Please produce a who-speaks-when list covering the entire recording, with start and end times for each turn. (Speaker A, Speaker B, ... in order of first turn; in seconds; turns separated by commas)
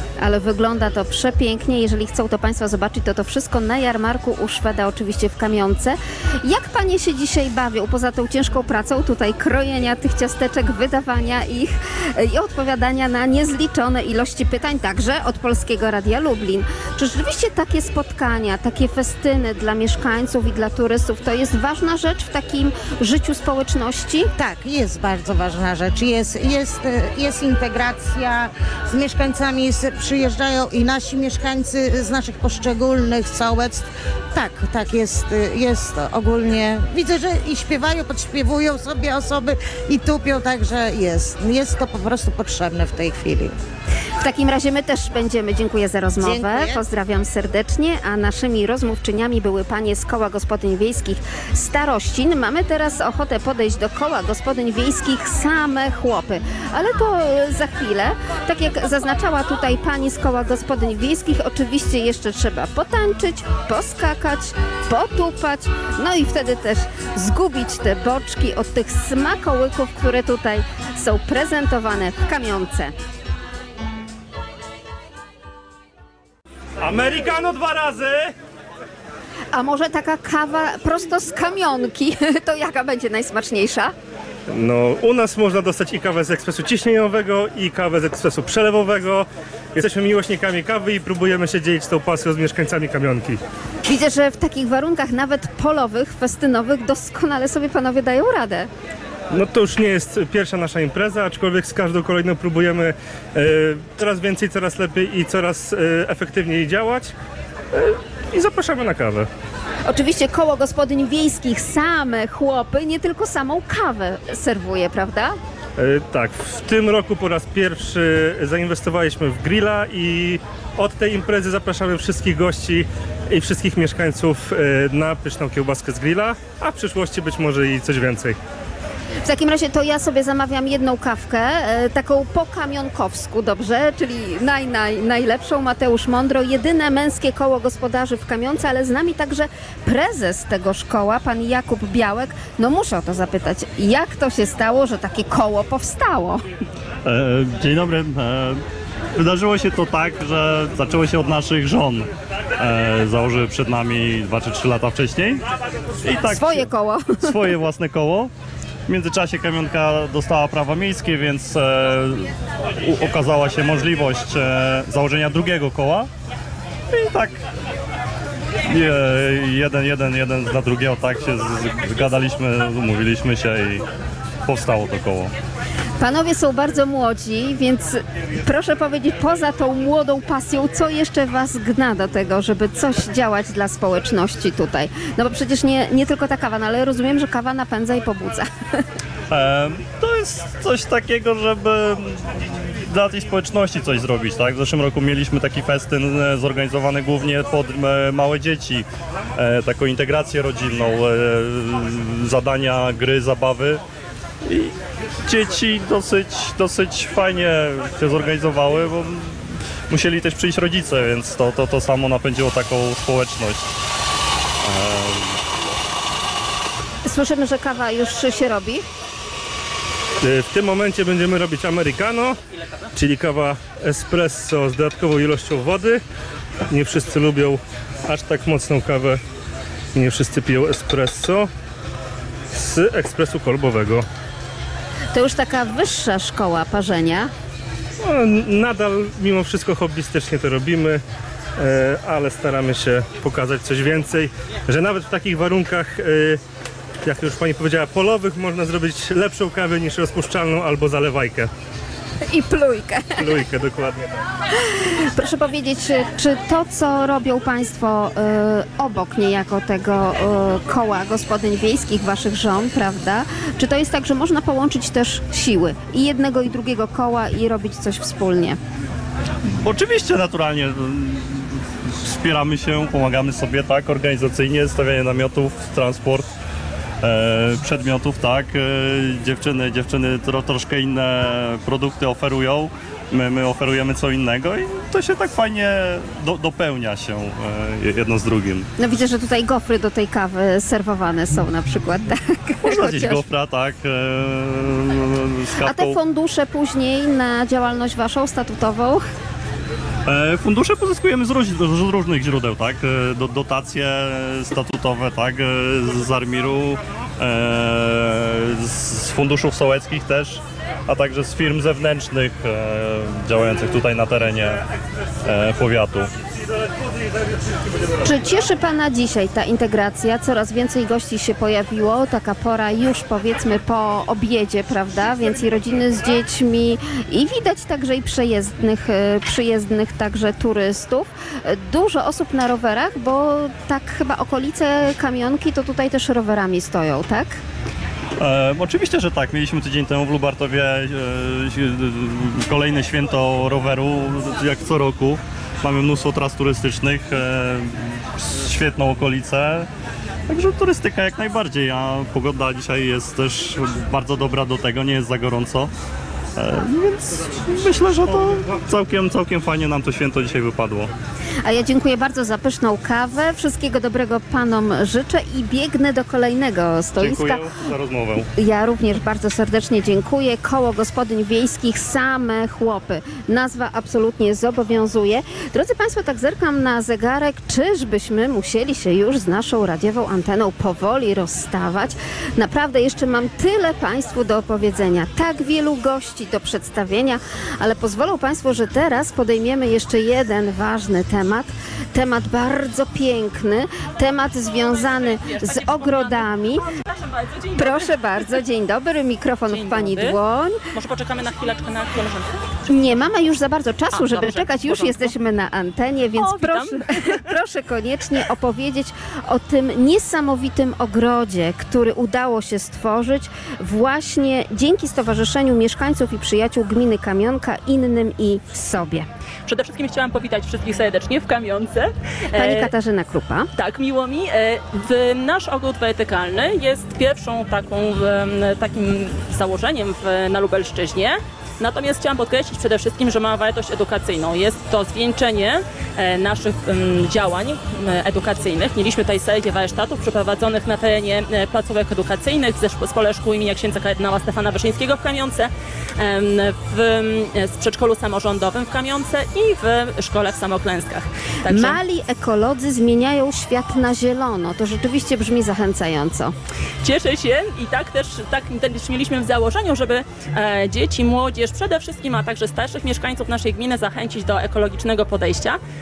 Speaker A: 0.2-24.3, Speaker B: 24.4-43.5, Speaker A: 44.2-73.0, Speaker B: 46.2-46.8, Speaker C: 76.8-78.3, Speaker A: 79.5-83.9, Speaker C: 84.5-93.4, Speaker A: 93.9-98.7, Speaker C: 99.3-107.1, Speaker C: 107.7-109.3, Speaker A: 109.9-115.4, Speaker C: 115.8-128.4, Speaker A: 129.2-146.4, Speaker D: 147.0-148.6, Speaker D: 149.2-155.4, Speaker D: 156.0-158.3, Speaker A: 156.3-157.3, Speaker D: 158.9-166.1, Speaker D: 166.9-167.4, Speaker D: 168.7-173.9, Speaker D: 174.4-175.3, Speaker A: 176.0-188.5, Speaker D: 189.3-203.8, Speaker D: 204.4-213.7, Speaker D: 214.6-215.4, Speaker A: 217.1-218.8, Speaker C: 220.2-222.4, Speaker C: 222.9-226.0, Speaker C: 226.7-229.2, Speaker C: 229.9-231.5, Speaker C: 232.5-234.1, Speaker A: 235.1-237.3, Speaker C: 238.0-241.0, Speaker C: 241.6-246.4, Speaker C: 247.0-251.5, Speaker A: 252.3-253.3, Speaker C: 253.2-254.1, Speaker A: 254.6-268.6, Speaker D: 269.6-276.3, Speaker D: 277.0-288.7, Speaker A: 288.8-293.2, Speaker D: 292.6-296.0, Speaker A: 295.6-299.0, Speaker D: 300.1-314.6, Speaker D: 315.2-316.1, Speaker A: 318.0-337.4, Speaker D: 338.2-349.7, Speaker D: 350.3-355.7, Speaker D: 356.4-360.9, Speaker A: 361.4-367.4, Speaker D: 367.0-368.3, Speaker A: 368.4-396.6, Speaker E: 395.1-397.9, Speaker A: 397.6-400.6, Speaker E: 399.5-400.2, Speaker E: 400.7-402.3, Speaker A: 402.7-419.1, Speaker E: 403.9-405.1, Speaker E: 406.2-407.2, Speaker E: 419.5-422.7, Speaker A: 422.3-423.5, Speaker E: 423.6-451.8, Speaker A: 451.5-456.3, Speaker E: 456.8-465.6